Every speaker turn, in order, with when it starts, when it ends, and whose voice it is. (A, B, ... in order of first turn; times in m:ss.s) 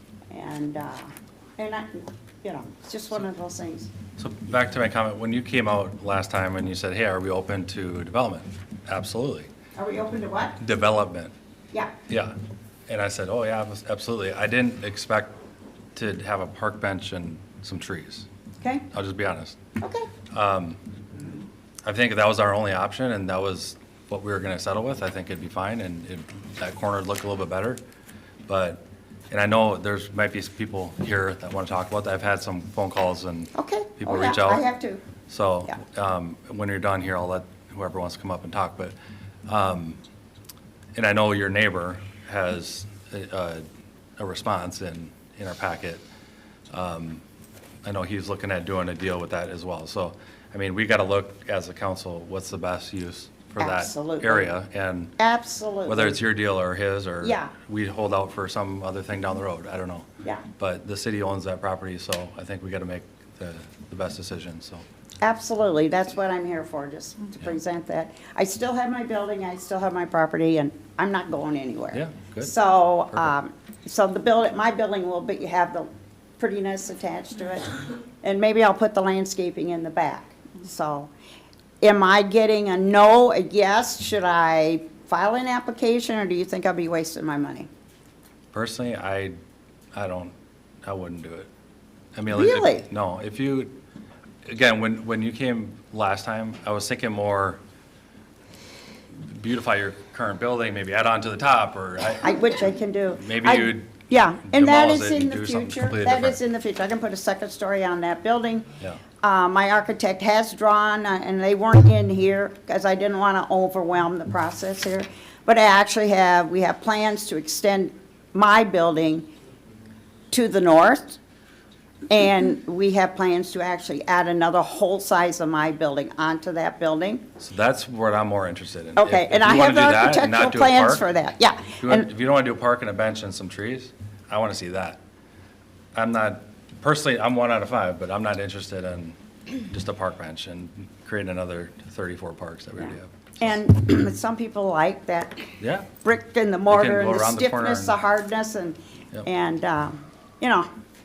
0:00.3-0:03.9 A
0:04.2-0:09.5 B
0:09.8-0:10.6 A
0:10.6-0:11.3 B
0:12.1-0:12.3 B
0:12.9-0:15.3 B
0:15.9-0:18.3 B
0:18.9-0:19.6 B
0:19.8-0:20.1 A
0:20.3-0:20.8 B
0:21.8-0:27.8 B
0:28.5-0:34.6 B
0:33.5-0:35.0 A
0:35.3-0:38.9 B
0:39.5-0:40.0 B
0:40.9-0:43.6 B
0:44.2-0:46.0 B
0:46.7-0:47.2 B
0:47.8-0:55.1 B
0:53.6-0:54.5 A
0:55.2-0:56.2 A
0:55.9-1:00.0 B
0:57.2-0:57.5 A
1:00.6-1:04.8 B
1:05.2-1:15.9 A
1:11.9-1:12.6 B
1:16.4-1:21.1 A
1:21.8-1:27.7 A
1:28.5-1:29.4 B
1:29.9-1:31.5 B
1:32.1-1:33.7 B
1:32.3-1:32.9 A
1:34.4-1:37.6 B
1:39.1-1:42.4 B
1:42.2-1:48.7 A
1:43.2-1:46.4 B
1:49.2-1:59.3 A
2:00.3-2:01.2 A
2:02.1-2:07.2 A
2:07.4-2:11.1 B
2:09.0-2:12.1 A
2:11.8-2:15.0 B
2:15.9-2:19.2 B
2:19.7-2:23.2 B
2:22.8-2:25.5 A
2:25.6-2:25.9 B
2:26.0-2:30.7 A
2:26.7-2:27.9 B